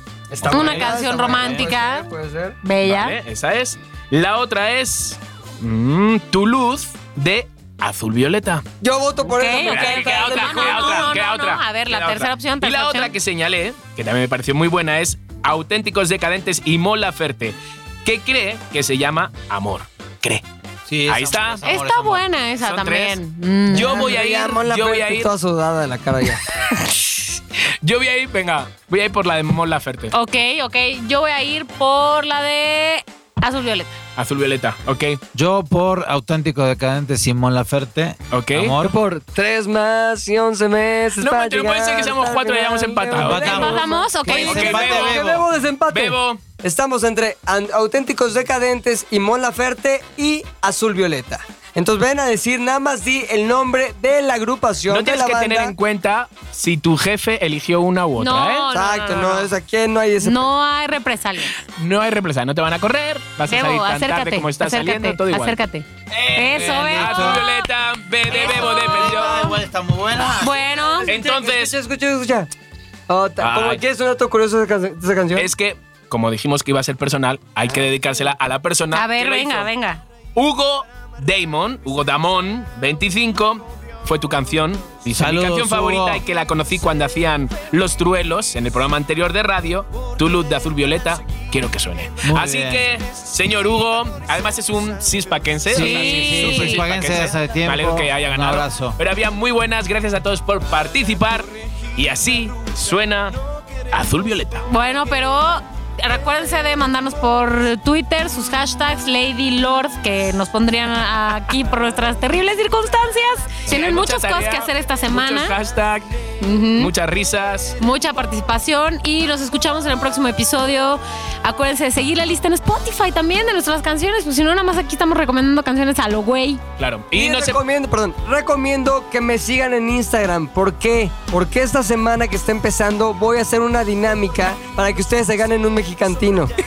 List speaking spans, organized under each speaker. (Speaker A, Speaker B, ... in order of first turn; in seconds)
Speaker A: 0.3-2.6, 8.8-11.1, 23.7-26.4, 38.8-55.7, 58.7-60.5, 70.9-72.5, 73.1-75.5, 127.1-136.5
Speaker B: 0.4-1.7, 20.9-22.3, 35.3-39.0, 43.1-45.5, 66.1-67.4, 68.2-70.6, 85.1-86.2, 92.2-92.9, 95.7-99.0
Speaker C: 0.5-2.1, 2.6-3.1, 9.3-13.1, 21.6-24.0, 30.1-33.9, 43.3-44.9, 58.2-59.5, 60.2-61.6, 63.5-67.6, 68.3-69.5, 70.4-71.1, 78.9-80.0, 95.7-96.8, 104.7-115.5, 116.4-116.9, 117.8-126.6
Speaker D: 0.6-0.8, 2.8-8.6, 9.6-20.4, 21.1-21.6, 22.6-23.2, 23.7-25.3, 26.8-30.1, 34.1-35.2, 38.3-38.8, 41.2-43.7, 44.4-45.2, 45.9-46.4, 54.9-58.7, 61.8-65.6, 66.1-69.5, 71.0-71.7, 73.4-73.8, 75.3-79.7, 80.3-103.4, 103.9-104.7, 113.7-116.1, 116.8-117.8, 126.8-127.6